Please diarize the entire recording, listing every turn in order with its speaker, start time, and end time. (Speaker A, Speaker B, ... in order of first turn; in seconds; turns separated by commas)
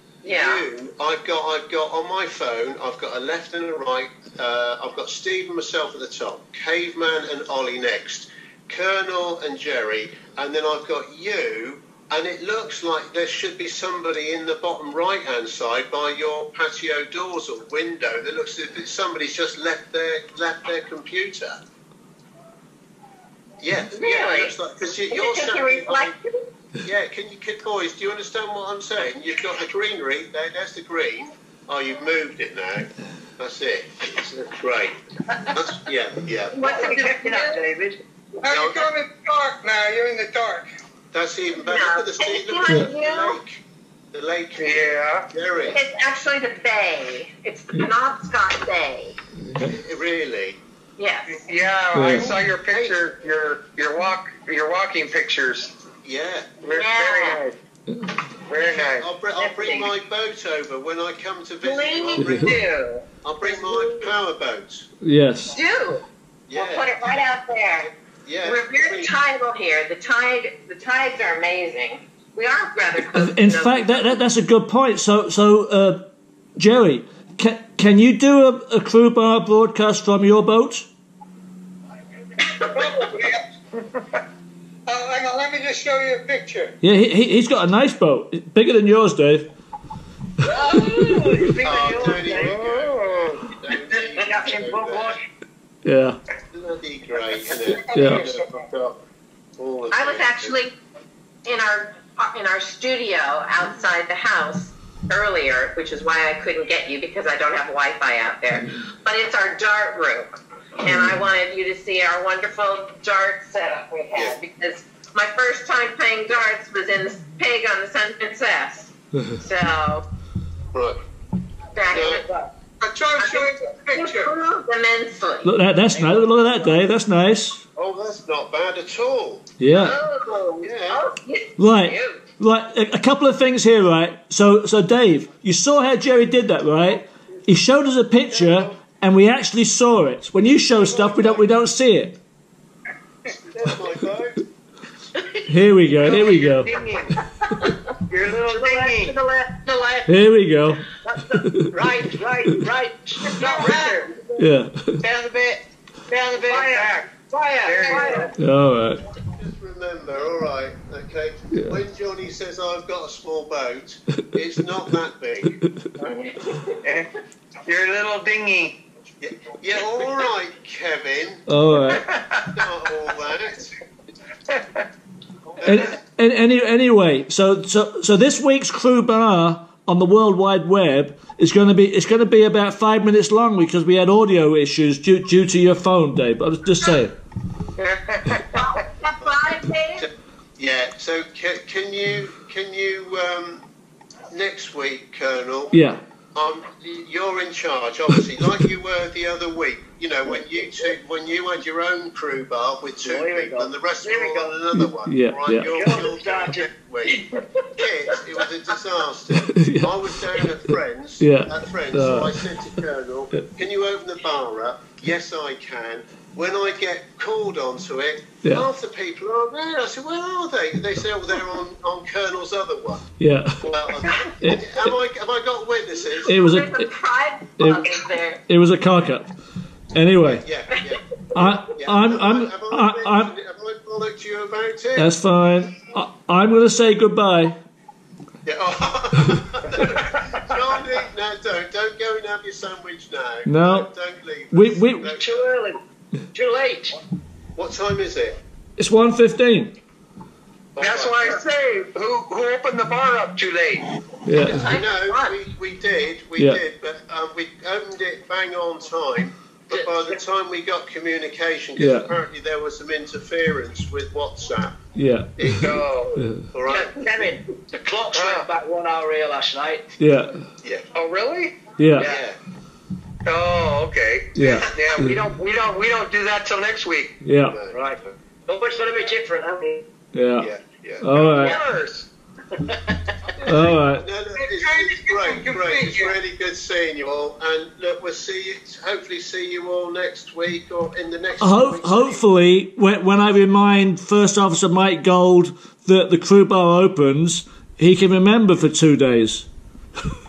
Speaker A: 0.2-21.6, Speaker B: 0.2-0.7, Speaker A: 23.6-26.2, Speaker B: 23.9-26.5, Speaker A: 26.8-36.6, Speaker B: 36.5-37.7, Speaker C: 36.5-38.0, Speaker D: 38.4-40.7, Speaker A: 38.5-38.9, Speaker A: 41.1-45.8, Speaker B: 41.5-43.4, Speaker E: 44.6-45.3, Speaker B: 45.7-49.2, Speaker F: 49.4-49.8, Speaker A: 49.6-50.6, Speaker B: 51.0-51.5, Speaker E: 51.3-55.7, Speaker F: 51.9-52.3, Speaker A: 52.6-53.0, Speaker A: 56.0-56.6, Speaker E: 56.6-57.6, Speaker B: 56.7-57.5, Speaker F: 57.9-58.2, Speaker E: 58.5-59.1, Speaker A: 58.6-62.6, Speaker B: 59.4-59.9, Speaker E: 61.6-63.0, Speaker F: 62.2-62.5, Speaker A: 63.2-64.9, Speaker F: 65.0-65.5, Speaker B: 65.5-67.9, Speaker A: 66.5-67.0, Speaker A: 67.8-69.2, Speaker B: 68.4-74.2, Speaker F: 73.1-76.0, Speaker F: 76.6-80.9, Speaker D: 82.6-83.5, Speaker D: 84.9-86.8, Speaker F: 86.8-89.5, Speaker C: 90.4-92.6, Speaker A: 91.6-95.2, Speaker E: 92.3-93.4, Speaker C: 93.9-95.2, Speaker F: 95.8-96.2, Speaker A: 96.5-99.0, Speaker D: 97.6-98.5, Speaker F: 97.9-98.3, Speaker A: 99.6-100.6, Speaker B: 99.9-100.8, Speaker B: 101.5-120.1, Speaker A: 120.7-121.0, Speaker B: 121.8-122.5, Speaker A: 121.9-122.2, Speaker D: 122.8-124.3, Speaker B: 123.2-125.5, Speaker F: 125.4-127.6, Speaker C: 125.9-126.8, Speaker A: 127.8-129.6, Speaker F: 129.6-130.0, Speaker B: 129.7-132.2, Speaker A: 130.6-131.0, Speaker F: 131.6-142.2, Speaker A: 140.8-141.5, Speaker A: 143.5-144.4, Speaker F: 145.5-146.7, Speaker E: 146.0-147.2, Speaker C: 148.1-150.1, Speaker E: 148.1-149.2, Speaker F: 150.1-150.8, Speaker C: 151.0-153.9, Speaker F: 151.4-151.7, Speaker E: 153.3-154.2, Speaker D: 153.6-153.9, Speaker F: 154.4-155.0, Speaker E: 155.0-157.1, Speaker C: 156.3-158.3, Speaker E: 157.6-158.3, Speaker D: 157.9-158.3, Speaker F: 158.4-159.0, Speaker A: 159.2-166.1, Speaker B: 166.1-166.3, Speaker E: 167.7-168.8, Speaker A: 169.2-171.4, Speaker F: 171.5-172.1, Speaker E: 171.9-172.5, Speaker A: 172.5-173.8, Speaker A: 175.6-175.9, Speaker F: 175.6-187.1, Speaker E: 187.8-188.8, Speaker B: 188.5-190.1, Speaker A: 189.2-193.6, Speaker A: 194.3-226.5, Speaker F: 195.7-196.0, Speaker C: 203.1-204.5, Speaker F: 204.8-205.7, Speaker C: 205.7-206.7, Speaker F: 209.5-210.4, Speaker F: 211.2-212.5, Speaker F: 223.2-223.6, Speaker F: 224.4-224.9, Speaker F: 226.2-226.9, Speaker B: 226.3-228.4, Speaker F: 227.6-229.3, Speaker F: 229.9-230.4, Speaker A: 230.2-235.1, Speaker F: 231.3-233.3, Speaker F: 235.0-237.6, Speaker A: 238.4-245.4, Speaker F: 243.5-243.9, Speaker F: 244.5-245.1, Speaker C: 245.2-245.8, Speaker C: 246.3-247.0, Speaker A: 247.6-248.4, Speaker F: 248.8-249.8, Speaker A: 250.8-251.3, Speaker E: 250.8-253.8, Speaker C: 250.9-251.3, Speaker F: 254.3-254.8, Speaker B: 254.5-255.4, Speaker A: 254.5-267.3, Speaker C: 259.7-260.2, Speaker F: 261.8-262.1, Speaker F: 264.9-265.6, Speaker E: 265.5-266.2, Speaker C: 266.7-269.8, Speaker E: 268.1-268.5, Speaker F: 270.0-270.4, Speaker E: 270.9-271.6, Speaker F: 271.8-272.1, Speaker A: 272.0-272.4, Speaker E: 273.3-277.1, Speaker F: 274.4-275.2, Speaker F: 277.2-277.6, Speaker A: 277.4-278.1, Speaker C: 277.7-279.8, Speaker F: 280.1-280.5, Speaker A: 280.4-281.1, Speaker F: 281.0-281.6, Speaker E: 281.4-282.1, Speaker C: 282.6-283.0, Speaker F: 283.4-284.1, Speaker A: 283.5-292.2, Speaker D: 284.4-286.2, Speaker F: 291.4-299.5